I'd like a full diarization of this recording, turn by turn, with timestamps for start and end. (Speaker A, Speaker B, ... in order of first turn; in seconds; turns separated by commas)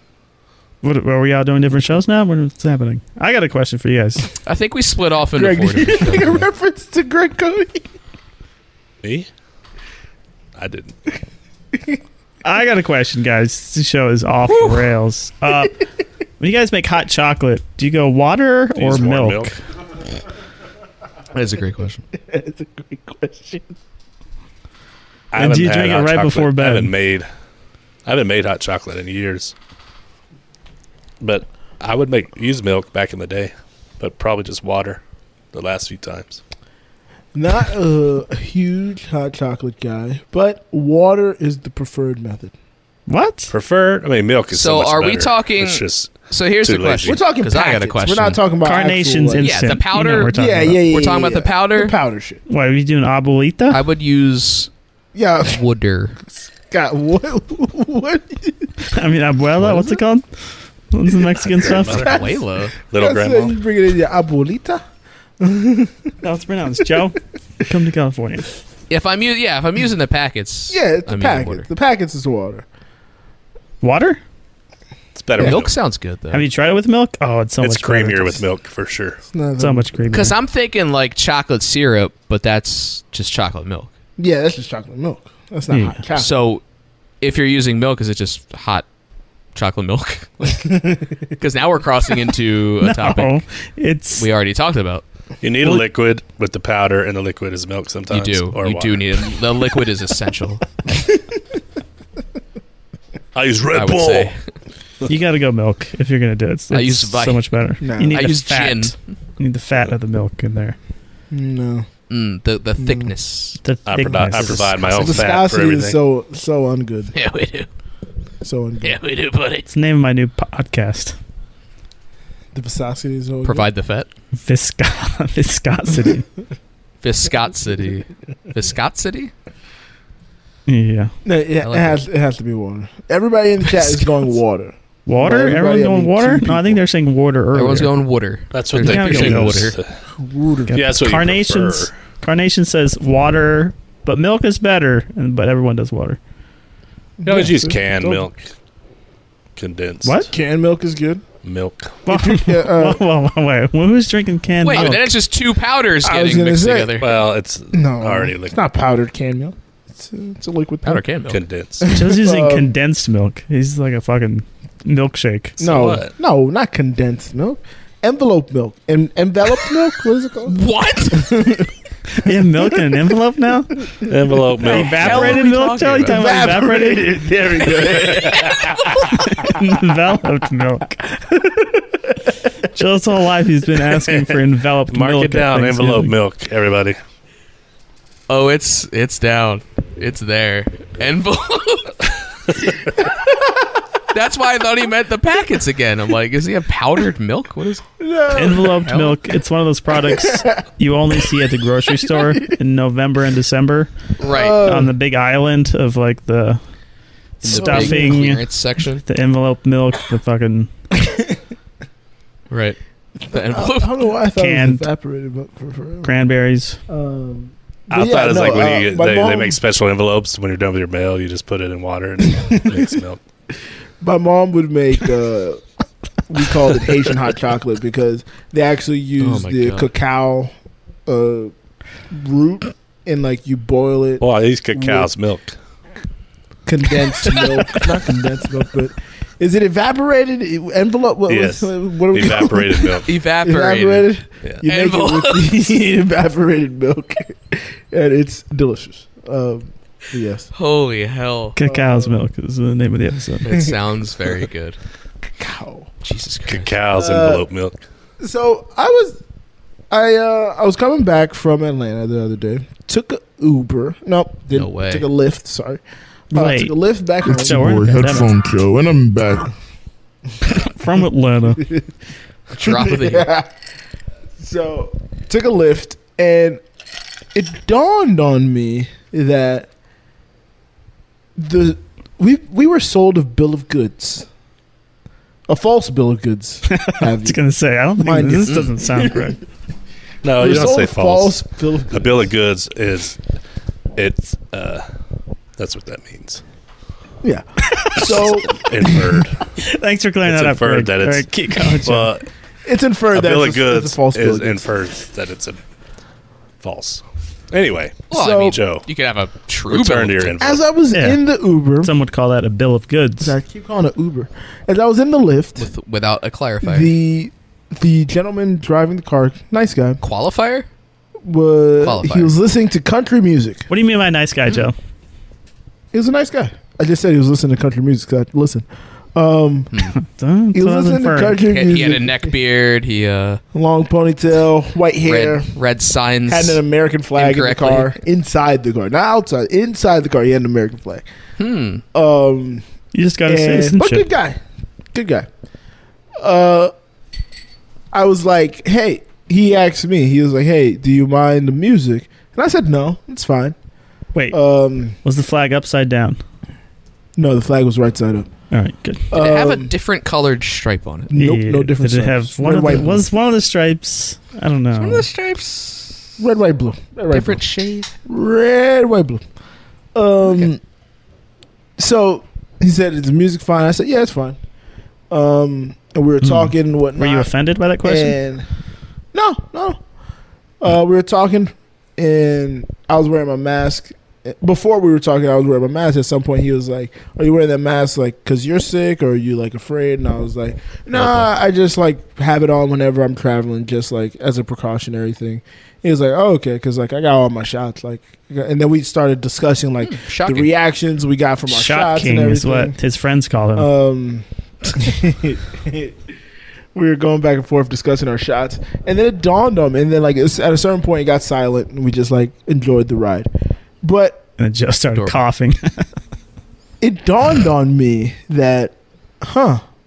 Speaker A: 0.8-4.3, Speaker B: 4.5-6.5, Speaker C: 5.3-7.9, Speaker D: 9.0-9.3, Speaker D: 10.6-11.0, Speaker A: 12.4-15.8, Speaker A: 16.4-19.6, Speaker D: 18.8-19.6, Speaker B: 21.3-22.0, Speaker C: 22.1-23.8, Speaker D: 25.3-27.3, Speaker A: 25.4-26.9, Speaker D: 28.1-29.5, Speaker D: 31.2-35.0, Speaker D: 35.5-36.4, Speaker C: 37.3-42.5, Speaker A: 43.1-43.5, Speaker D: 43.5-47.2, Speaker B: 44.5-48.4, Speaker C: 47.0-49.6, Speaker A: 48.6-50.9, Speaker B: 49.4-52.0, Speaker C: 50.2-52.4, Speaker A: 52.5-53.8, Speaker B: 53.7-54.7, Speaker C: 55.1-55.6, Speaker B: 55.5-56.2, Speaker C: 56.7-58.7, Speaker A: 58.9-60.2, Speaker C: 59.7-60.0, Speaker A: 60.9-62.1, Speaker D: 61.4-62.2, Speaker C: 62.0-62.4, Speaker B: 62.0-62.8, Speaker D: 62.9-63.5, Speaker C: 62.9-64.8, Speaker C: 65.4-66.0, Speaker A: 66.2-68.5, Speaker B: 68.9-71.7, Speaker C: 70.7-72.7, Speaker A: 73.8-74.2, Speaker D: 75.2-75.7, Speaker C: 75.4-75.6, Speaker B: 75.4-76.5, Speaker A: 76.3-78.4, Speaker D: 77.6-79.2, Speaker C: 79.3-80.1, Speaker A: 79.6-80.3, Speaker B: 80.1-83.9, Speaker C: 84.2-86.4, Speaker A: 85.7-86.0, Speaker B: 86.2-86.6, Speaker B: 87.2-88.9, Speaker B: 89.5-93.4, Speaker A: 92.8-94.3, Speaker B: 94.2-95.0, Speaker D: 95.4-99.1, Speaker B: 98.1-100.7, Speaker D: 103.3-104.3, Speaker B: 103.7-104.4, Speaker A: 105.1-110.8, Speaker B: 106.7-109.0, Speaker C: 107.8-108.3, Speaker C: 111.3-111.9, Speaker B: 112.1-113.6, Speaker C: 112.8-113.1, Speaker A: 113.6-114.7, Speaker D: 113.9-116.0, Speaker B: 114.4-115.3, Speaker C: 114.9-117.1, Speaker B: 117.1-117.7, Speaker C: 118.4-119.0, Speaker B: 118.8-119.7, Speaker A: 119.7-121.2, Speaker C: 122.5-123.7, Speaker B: 123.4-124.1, Speaker A: 124.4-126.3, Speaker B: 127.0-129.3, Speaker A: 130.7-131.1, Speaker C: 131.2-136.8, Speaker B: 131.6-132.0, Speaker B: 133.7-134.2, Speaker A: 135.1-137.9, Speaker B: 137.5-139.8, Speaker D: 138.5-139.9, Speaker A: 138.8-139.7, Speaker C: 140.1-140.8, Speaker A: 140.7-146.2, Speaker D: 140.7-141.9, Speaker C: 147.2-148.3, Speaker D: 147.2-148.5, Speaker D: 149.6-150.3, Speaker A: 150.0-150.3, Speaker C: 150.3-151.2, Speaker D: 151.4-152.0, Speaker A: 152.1-155.1, Speaker C: 152.1-153.0, Speaker B: 154.6-157.1, Speaker C: 156.0-157.0, Speaker D: 157.0-158.6, Speaker C: 157.7-161.1, Speaker B: 160.8-161.4, Speaker D: 161.3-161.9, Speaker C: 161.8-162.7, Speaker A: 161.9-165.6, Speaker C: 165.6-170.6, Speaker D: 165.6-166.1, Speaker B: 170.5-171.5, Speaker C: 171.1-171.7, Speaker A: 172.2-173.8, Speaker D: 174.1-175.4, Speaker B: 174.6-176.4, Speaker A: 174.6-177.1, Speaker C: 176.1-178.7, Speaker B: 177.7-179.1, Speaker D: 178.1-178.7, Speaker A: 179.2-181.1, Speaker C: 181.4-181.8, Speaker A: 182.7-186.2, Speaker D: 184.9-187.0, Speaker B: 188.3-192.1, Speaker B: 194.1-197.8, Speaker C: 198.0-198.9, Speaker A: 198.3-203.9, Speaker B: 198.9-199.1, Speaker C: 200.1-200.5, Speaker B: 204.2-204.7, Speaker C: 204.2-204.9, Speaker A: 204.6-206.6, Speaker A: 207.4-208.4, Speaker B: 207.4-209.0, Speaker C: 207.5-208.3, Speaker A: 209.1-210.7, Speaker C: 211.1-211.3, Speaker B: 212.5-212.8, Speaker B: 213.3-214.0, Speaker C: 213.3-216.1, Speaker A: 214.4-214.8, Speaker A: 216.0-216.8, Speaker C: 216.9-219.6, Speaker D: 217.9-223.2, Speaker C: 222.3-222.9, Speaker C: 224.0-225.6, Speaker C: 226.3-230.5, Speaker B: 229.2-229.9, Speaker C: 231.1-231.5, Speaker C: 232.1-235.1, Speaker D: 234.2-235.6, Speaker C: 236.7-250.5, Speaker B: 237.3-237.8, Speaker D: 241.3-243.1, Speaker B: 243.1-244.1, Speaker B: 244.6-245.6, Speaker B: 250.5-251.6, Speaker A: 251.6-253.5, Speaker C: 251.6-252.2, Speaker B: 253.4-254.8, Speaker C: 253.5-253.7, Speaker C: 255.3-255.9, Speaker B: 256.0-256.8, Speaker D: 256.5-257.8, Speaker C: 256.9-257.5, Speaker C: 258.2-259.2, Speaker C: 259.9-267.7, Speaker B: 264.5-265.1, Speaker A: 266.3-266.7, Speaker E: 267.2-269.5, Speaker A: 267.3-268.3, Speaker A: 270.5-271.7, Speaker B: 272.5-273.3, Speaker C: 272.5-273.5, Speaker C: 274.4-276.6, Speaker C: 277.3-279.7, Speaker C: 281.4-284.3, Speaker C: 285.5-287.4, Speaker A: 286.7-289.4, Speaker C: 288.0-289.1, Speaker D: 290.2-291.4, Speaker C: 290.4-292.3, Speaker D: 291.9-293.2, Speaker D: 294.0-294.9, Speaker D: 295.6-296.4, Speaker C: 297.2-299.2, Speaker D: 298.0-299.4, Speaker A: 299.6-302.1, Speaker D: 300.2-302.3, Speaker C: 302.6-304.7, Speaker D: 303.1-305.6, Speaker D: 306.6-308.9, Speaker B: 308.1-310.4, Speaker C: 308.1-308.6, Speaker D: 309.7-310.6, Speaker C: 310.4-311.9, Speaker A: 310.9-311.2, Speaker A: 311.8-313.4, Speaker C: 313.2-315.7, Speaker B: 315.6-316.9, Speaker C: 316.6-320.0, Speaker B: 320.0-320.7, Speaker C: 321.2-323.7, Speaker B: 321.8-322.3, Speaker A: 323.7-324.8, Speaker C: 325.9-329.8, Speaker A: 329.9-331.4, Speaker C: 330.5-332.3, Speaker B: 331.5-333.4, Speaker C: 333.5-335.5, Speaker B: 335.1-336.6, Speaker C: 336.3-341.1, Speaker B: 337.1-337.9, Speaker B: 341.4-341.8, Speaker C: 341.9-342.6, Speaker A: 342.9-344.1, Speaker C: 343.3-344.4, Speaker C: 344.9-345.3, Speaker C: 346.2-346.7, Speaker C: 347.9-353.6, Speaker A: 354.1-354.4, Speaker C: 354.3-355.0, Speaker A: 355.0-356.2, Speaker C: 357.2-358.3, Speaker A: 358.5-359.1, Speaker C: 359.1-359.7, Speaker B: 359.1-361.1, Speaker C: 361.1-363.0, Speaker A: 361.1-365.1, Speaker B: 364.8-366.1, Speaker C: 366.2-367.4, Speaker B: 367.1-367.9, Speaker C: 368.1-369.2, Speaker C: 369.9-370.6, Speaker C: 371.8-374.4, Speaker C: 375.1-377.3, Speaker A: 376.2-378.2, Speaker C: 377.8-378.5, Speaker C: 379.1-379.8, Speaker C: 380.6-402.8, Speaker B: 390.9-391.3, Speaker B: 399.8-400.5, Speaker A: 401.5-403.7, Speaker C: 403.6-406.0, Speaker C: 406.7-413.3, Speaker C: 413.8-414.3, Speaker A: 414.4-415.6, Speaker C: 416.8-419.6